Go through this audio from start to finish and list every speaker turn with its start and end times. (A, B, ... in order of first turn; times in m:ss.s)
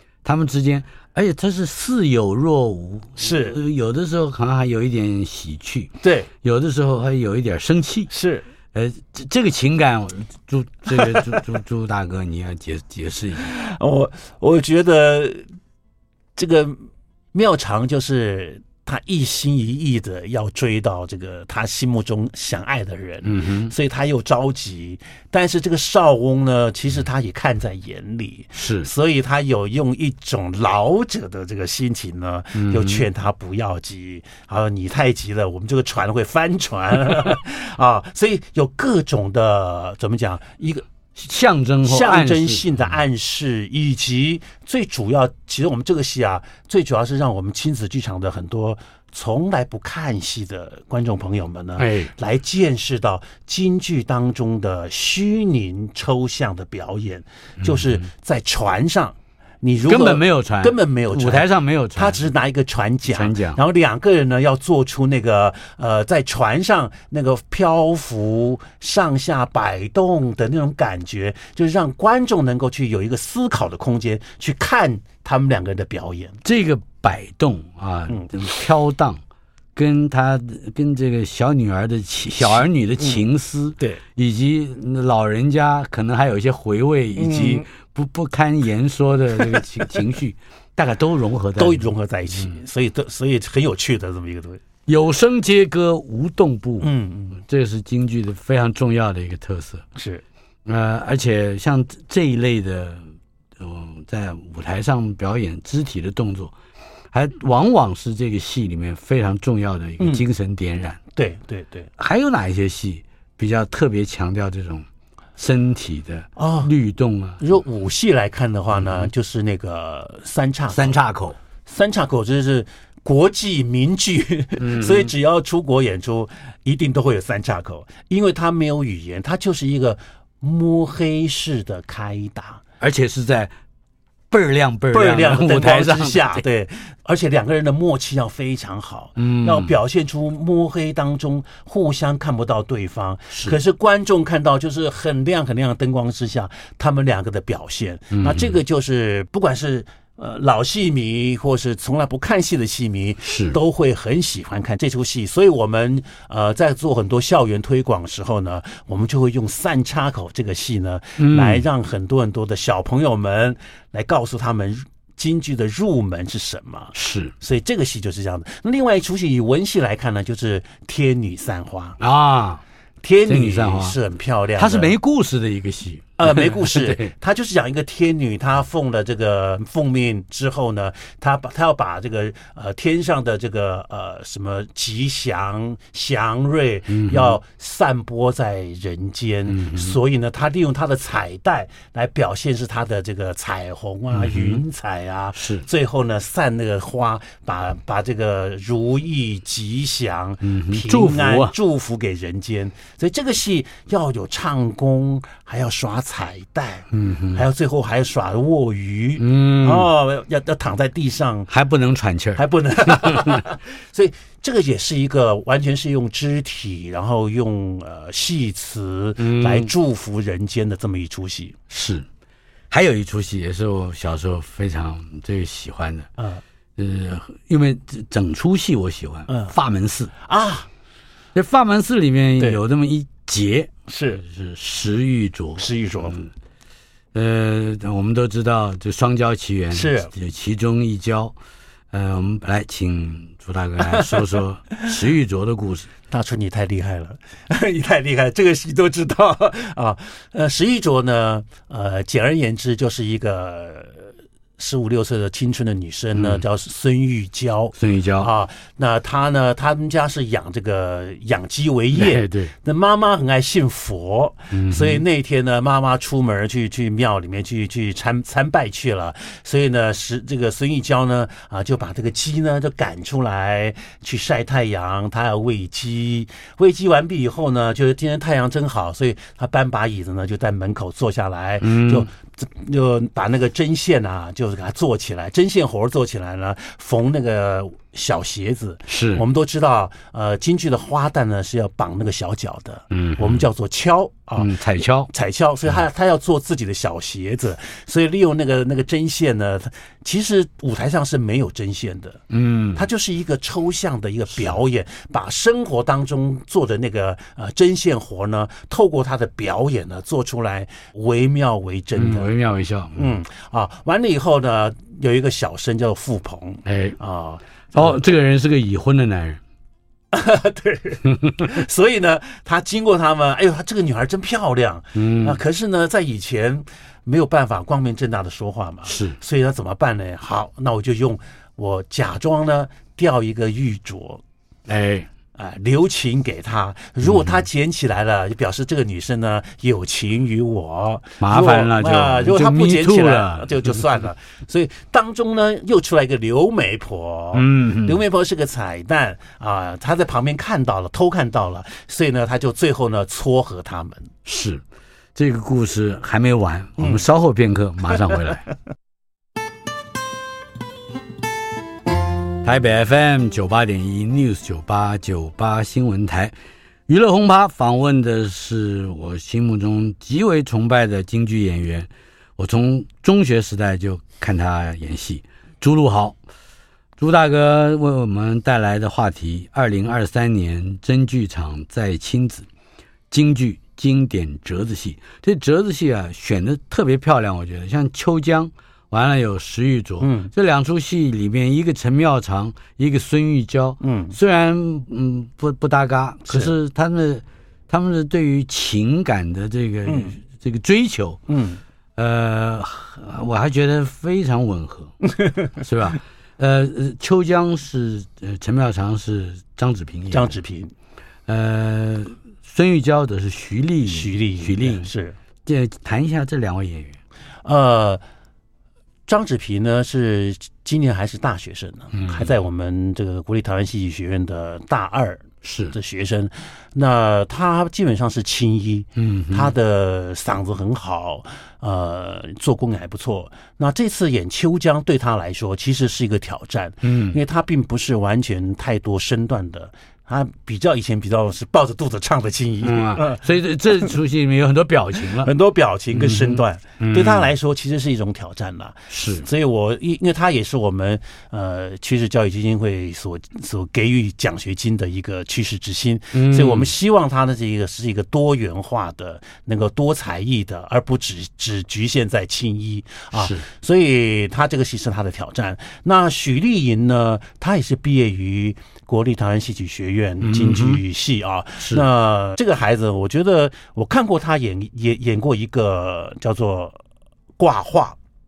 0:00.2-0:05.9 A
0:03.2-0:03.6 B
0:06.0-0:06.3 B
0:06.4-0:08.1 A
0:08.1-0:08.4 B
0:08.7-0:13.5 A
0:11.0-0:11.2 B
0:13.4-0:15.4 B
0:16.4-0:40.9 B
0:23.2-0:23.7 A
0:28.6-0:28.9 A
0:32.6-0:33.1 A
0:41.2-0:42.8 A
0:41.8-1:16.4 B
0:51.8-0:52.1 A
0:57.6-0:58.1 A
0:59.8-1:02.3 A
1:03.1-1:03.6 A
1:16.4-1:19.2 A
1:19.8-1:31.9 A
1:22.5-1:23.2 B
1:27.2-1:27.6 B
1:31.6-1:34.6 B
1:34.9-1:39.8 A
1:36.8-1:37.4 B
1:40.0-1:40.2 B
1:40.7-1:43.0 A
1:43.6-1:46.5 A
1:47.1-1:51.0 A
1:51.1-1:51.9 B
1:52.0-1:54.9 A
1:55.4-1:57.4 A
1:56.4-1:56.7 B
1:57.4-2:01.0 B
1:58.7-1:59.1 A
2:00.7-2:01.4 A
2:01.7-2:12.6 B
2:04.6-2:05.1 A
2:12.8-2:13.5 A
2:14.3-2:16.4 A
2:14.9-2:52.0 B
2:19.2-2:19.7 A
2:23.3-2:23.6 A
2:28.1-2:28.6 A
2:33.2-2:33.6 A
2:41.2-2:41.6 A
2:47.0-2:47.3 A
2:52.0-2:52.6 A
2:53.0-2:55.0 B
2:53.3-2:54.0 A
2:54.6-2:57.1 A
2:56.2-3:31.5 B
3:06.9-3:07.4 A
3:09.5-3:10.0 A
3:14.1-3:14.6 A
3:15.4-3:15.7 A
3:20.4-3:21.5 A
3:26.9-3:27.4 A
3:29.2-3:29.9 A
3:31.5-3:33.4 A
3:32.4-3:41.6 B
3:39.2-3:39.7 A
3:41.7-3:42.0 A
3:42.7-3:46.1 A
3:46.2-3:46.4 B
3:46.8-3:50.1 A
3:49.3-3:49.5 B
3:50.2-3:50.7 B
3:51.3-3:56.3 A
3:53.9-3:54.2 B
3:55.6-3:56.2 B
3:57.1-4:01.4 A
3:59.7-4:00.1 B
4:01.9-4:05.9 A
4:03.9-4:04.2 B
4:06.1-4:54.6 B
4:16.2-4:16.4 A
4:17.8-4:18.3 A
4:21.9-4:22.5 A
4:24.5-4:25.0 A
4:41.6-4:42.1 A
4:48.9-4:49.2 A
4:52.9-4:53.4 A
4:54.4-4:55.1 A
4:55.1-5:02.2 B
5:02.3-5:02.8 A
5:02.8-5:12.3 B
5:12.0-5:13.1 A
5:13.0-5:18.0 B
5:16.7-5:17.0 A
5:17.7-5:19.4 A
5:20.1-5:34.2 B
5:21.2-5:21.5 A
5:25.0-5:25.4 A
5:28.9-5:29.2 A
5:34.7-5:35.1 A
5:35.4-5:54.1 B
5:37.0-5:37.5 A
5:41.2-5:43.8 A
5:47.3-5:48.0 A
5:54.2-5:54.6 A
5:55.2-5:58.5 A
5:56.8-5:57.0 B
6:02.4-6:06.3 A
6:06.9-6:16.2 A
6:17.0-6:22.5 A
6:23.1-6:41.2 A
6:30.0-6:30.3 B
6:33.8-6:34.2 B
6:36.3-6:36.5 B
6:39.9-6:40.2 B
6:41.3-6:41.6 B
6:42.0-6:45.0 A
6:45.2-6:45.5 B
6:45.6-6:50.4 A
6:50.1-6:50.7 B
6:51.3-6:54.9 A
6:53.9-6:55.2 B
6:55.5-6:57.0 A
6:57.4-6:58.0 B
6:59.1-7:23.2 B
7:01.9-7:02.3 A
7:05.4-7:05.8 A
7:09.0-7:09.5 A
7:16.8-7:17.2 A
7:22.6-7:25.3 A
7:25.2-7:56.8 B
7:25.9-7:27.3 A
7:28.9-7:29.3 A
7:36.1-7:36.7 A
7:43.1-7:43.4 A
7:50.2-7:50.8 A
7:51.6-7:51.9 A
7:57.4-7:58.0 B